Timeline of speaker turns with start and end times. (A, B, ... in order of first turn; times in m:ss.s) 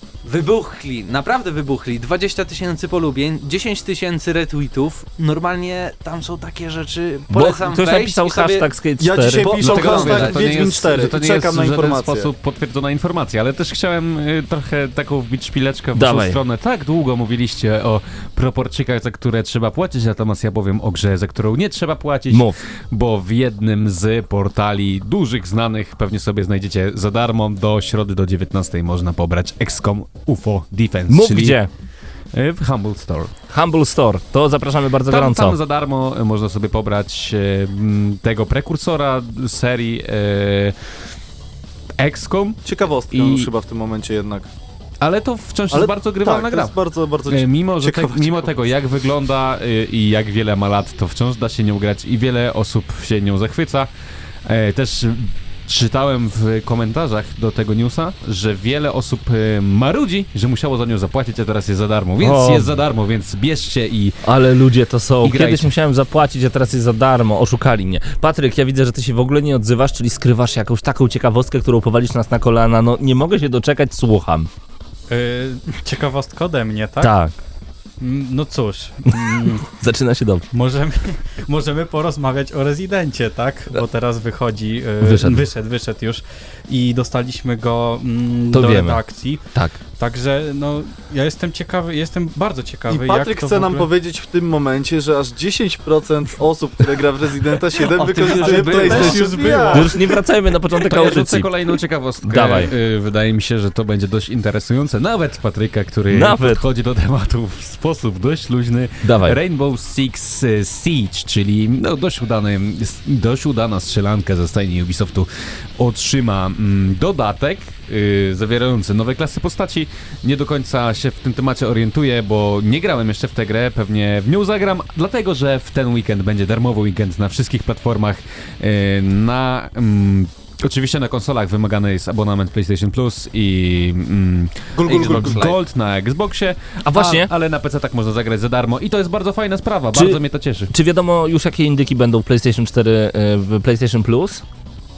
0:00.3-0:08.7 A
0:07.3-0:10.0 B
0:09.0-0:12.3 C
0:09.4-0:31.7 D
0:09.4-0:10.5 A
0:16.0-0:16.4 B
0:22.3-0:22.6 B
0:31.1-0:31.7 B
0:32.3-0:33.3 D
0:33.5-0:35.6 B
0:35.1-0:41.0 D
0:42.0-0:43.5 D
0:42.6-0:44.5 C
0:45.0-0:53.9 D
0:45.7-0:48.6 C
0:54.4-1:04.2 D
1:02.2-1:02.7 B
1:04.2-1:14.5 B
1:05.2-1:05.7 D
1:15.1-1:17.1 E
1:17.0-1:17.3 B
1:18.0-1:19.7 E
1:19.1-1:20.5 B
1:20.5-1:29.4 E
1:25.0-1:25.5 B
1:28.5-1:29.0 B
1:29.9-1:33.9 E
1:32.9-1:39.9 C
1:37.9-1:39.6 A
1:38.2-1:40.0 E
1:39.7-1:41.5 B
1:40.9-2:20.7 D
1:42.2-1:42.7 B
1:46.1-1:46.6 B
1:49.0-1:49.4 B
2:14.8-2:15.6 A
2:14.8-2:15.2 C
2:16.8-2:17.3 B
2:19.9-2:24.4 B